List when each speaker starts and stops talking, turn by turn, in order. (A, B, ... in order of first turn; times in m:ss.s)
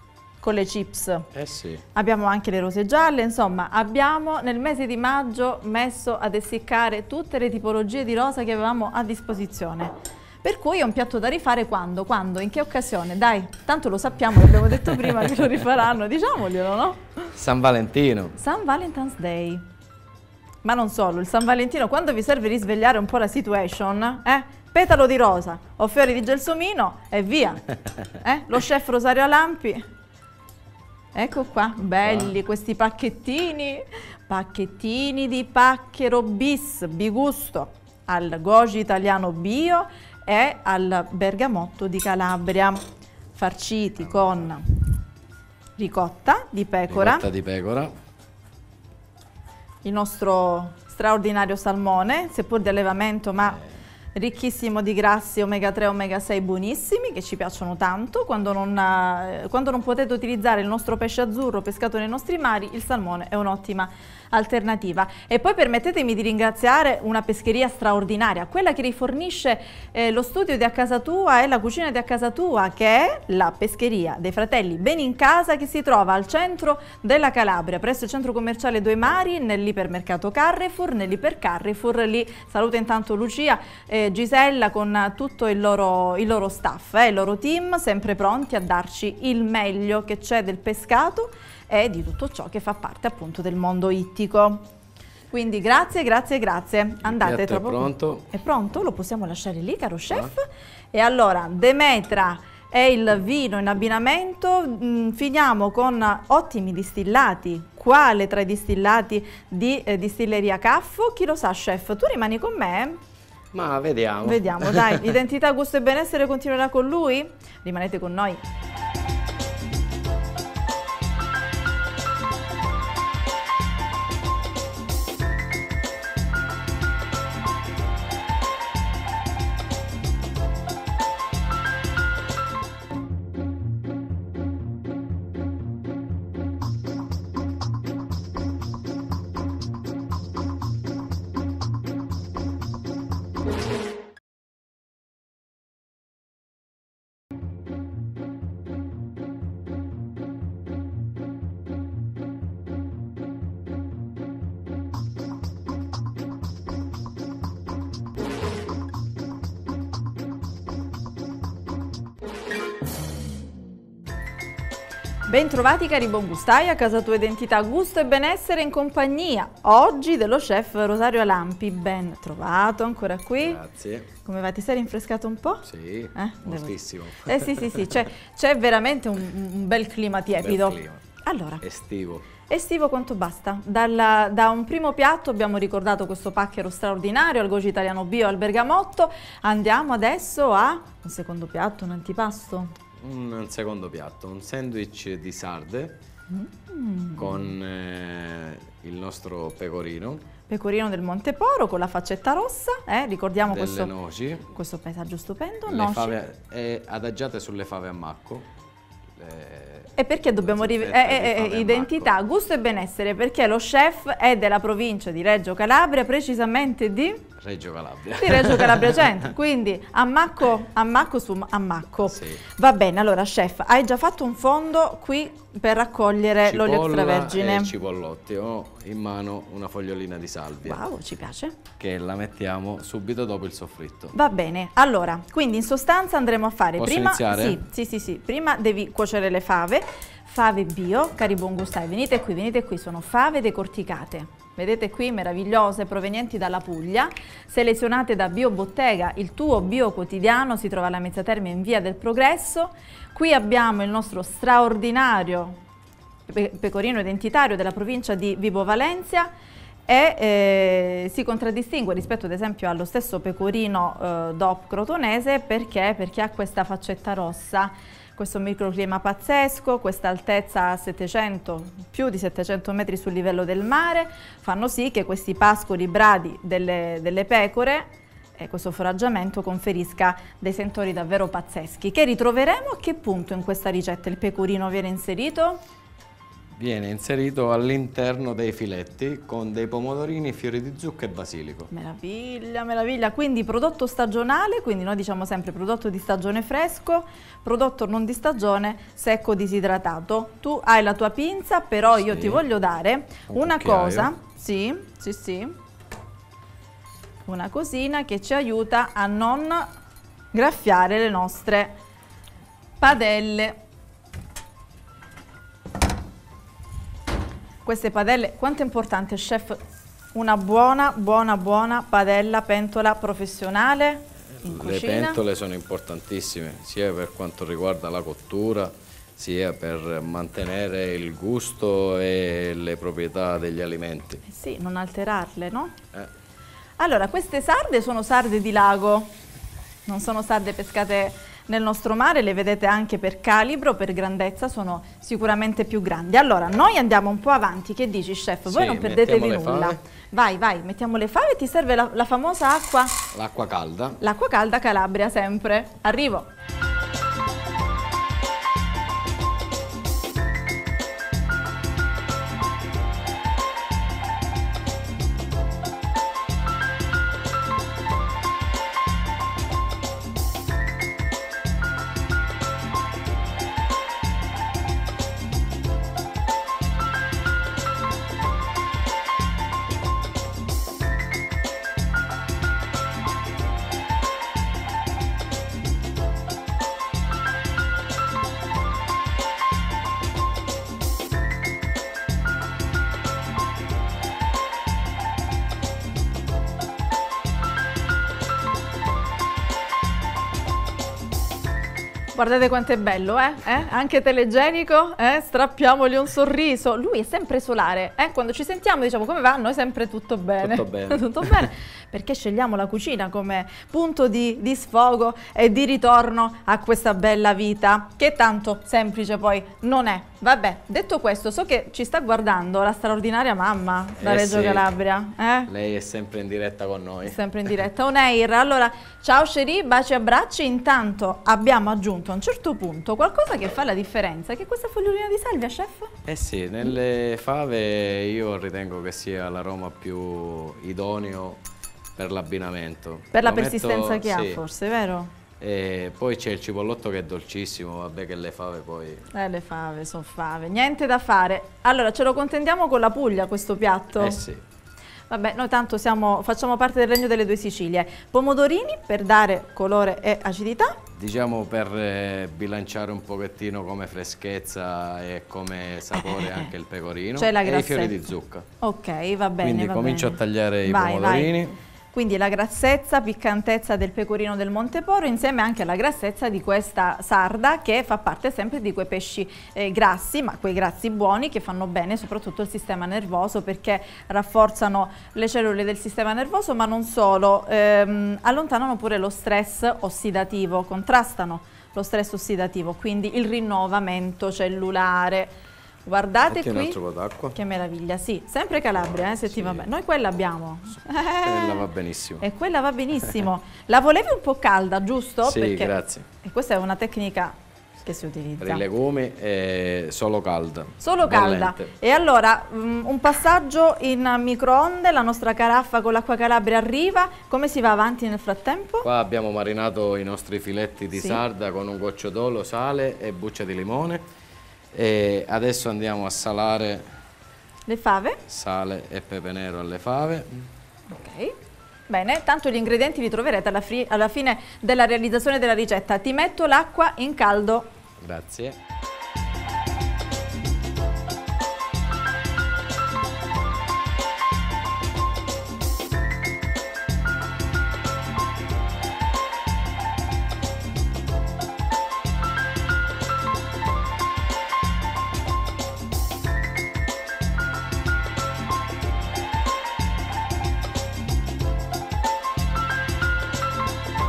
0:00.4-0:01.3 A
0:01.3-0:01.8 B
0:01.9-0:17.3 A
0:17.3-0:18.4 B
0:18.4-0:19.6 A
0:20.6-0:29.9 A
0:31.1-0:42.8 A
0:32.0-0:32.3 B
0:43.3-0:44.9 A
0:45.8-0:47.3 A
0:46.9-0:47.9 B
0:49.8-0:53.6 A
0:54.1-1:34.6 A
1:35.3-1:53.0 A
1:37.0-1:38.3 B
1:53.5-1:55.2 B
1:54.2-1:58.4 A
2:45.3-2:53.6 A
2:53.4-2:54.1 B
2:54.2-3:01.6 A
2:55.6-2:58.1 B
3:00.4-3:01.0 B
3:01.6-3:02.2 B
3:02.5-3:12.7 A
3:13.0-3:16.0 B
3:16.3-3:17.5 A
3:17.2-3:20.2 B
3:20.5-3:23.9 A
3:23.4-3:24.5 B
3:24.5-3:26.2 A
3:25.6-3:28.5 B
3:29.1-3:32.1 B
3:30.0-3:37.3 A
3:37.4-3:39.3 B
3:38.1-3:47.7 A
3:42.1-3:42.4 B
3:46.4-3:50.8 B
3:50.6-3:51.6 A
3:51.8-3:54.1 B
3:54.1-4:15.6 A
3:56.8-3:57.6 B
4:16.3-4:19.3 A
4:19.9-4:45.6 A
4:46.6-4:51.7 B
4:51.7-5:05.6 A
5:02.0-5:02.4 B
5:03.3-5:04.1 B
5:07.3-5:09.7 A
5:10.3-5:11.7 A
5:12.8-5:13.6 A
5:17.6-5:19.6 A
5:20.1-5:25.2 A
5:24.4-5:34.2 B
5:34.2-5:35.8 A
5:36.8-5:39.1 A
5:39.9-5:53.1 A
5:48.4-5:49.8 B
5:53.1-5:54.0 B
5:54.0-5:56.3 A
6:42.1-7:05.5 A
6:50.4-6:51.5 B
7:04.0-7:04.6 B
7:05.5-7:07.2 B
7:07.0-7:16.0 A
7:16.0-7:21.4 B
7:22.0-7:24.4 B
7:23.1-7:25.1 A
7:25.4-7:29.1 B
7:29.1-7:34.2 A
7:34.0-7:34.4 B
7:35.1-7:40.8 A
7:40.9-7:48.4 B
7:46.2-7:46.4 A
7:47.2-7:48.0 A
7:48.6-8:15.3 A
7:49.4-7:51.6 B
8:15.9-8:16.8 A
8:16.3-8:17.4 B
8:17.3-8:21.6 A
8:18.9-8:19.7 B
8:21.2-8:22.2 B
8:22.2-8:28.6 A
8:25.2-8:26.1 B
8:28.4-8:31.7 B
8:30.8-8:38.9 A
8:38.8-8:44.0 B
8:40.9-8:41.2 A
8:44.7-8:46.8 B
8:47.7-8:48.2 A
8:48.3-8:50.5 B
8:50.9-8:51.4 A
8:51.9-8:57.7 A
8:58.0-8:58.6 B